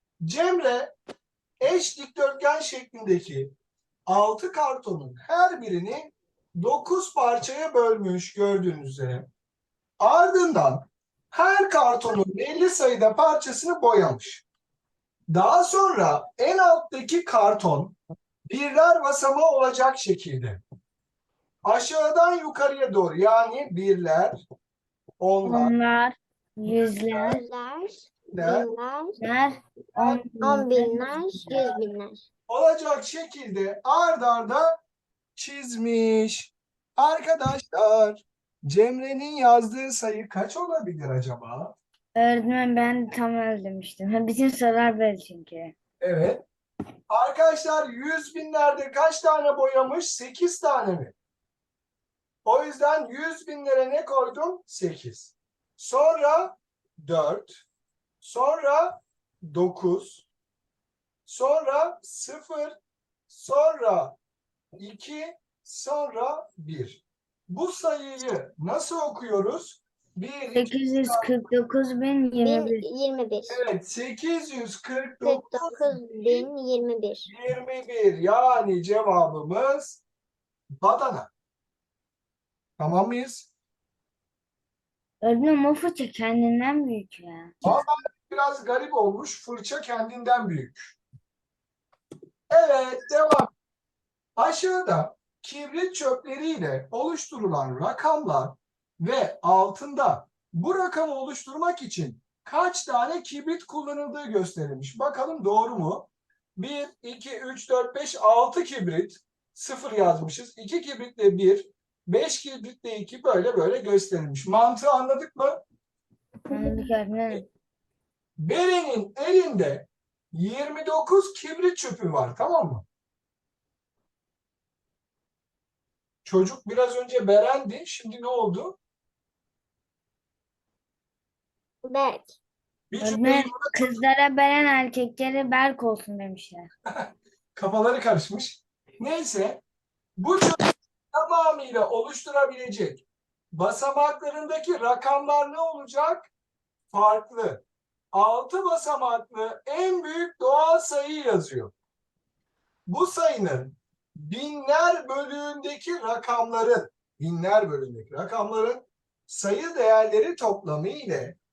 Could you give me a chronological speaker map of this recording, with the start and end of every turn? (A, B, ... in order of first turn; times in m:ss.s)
0:00.2-0:00.9 A
0:01.6-0:03.5 A
0:04.1-0:09.3 A
0:10.0-0:14.4 A
0:15.3-0:18.0 A
0:18.5-0:20.6 A
0:21.6-0:24.4 A
0:25.2-0:25.7 A
0:25.4-0:27.4 B
0:26.7-0:27.3 A
0:27.3-0:29.2 C
0:28.3-0:28.7 A
0:29.2-0:31.6 B
0:30.4-0:32.2 C
0:32.5-0:34.8 A
0:35.4-0:41.8 A
0:42.2-0:45.7 B
0:46.0-0:46.4 A
0:47.1-0:51.1 A
0:52.4-0:57.6 A
0:58.2-1:00.2 A
1:01.2-1:02.8 A
1:03.3-1:04.2 A
1:04.8-1:11.3 A
1:10.6-1:12.8 B
1:12.4-1:13.6 C
1:13.5-1:16.5 A
1:15.2-1:17.3 C
1:17.3-1:20.0 A
1:20.8-1:21.3 A
1:22.8-1:23.5 A
1:25.2-1:27.8 B
1:27.6-1:31.0 A
1:32.5-1:33.5 A
1:34.4-1:55.6 A
1:56.5-1:57.5 B
1:58.4-2:02.8 A
2:06.2-2:08.8 A
2:11.8-2:12.4 C
2:12.9-2:13.9 A
2:13.0-2:16.7 B
2:16.9-2:19.6 A
2:20.2-2:26.3 A
2:26.9-2:31.7 A
2:32.9-2:41.4 A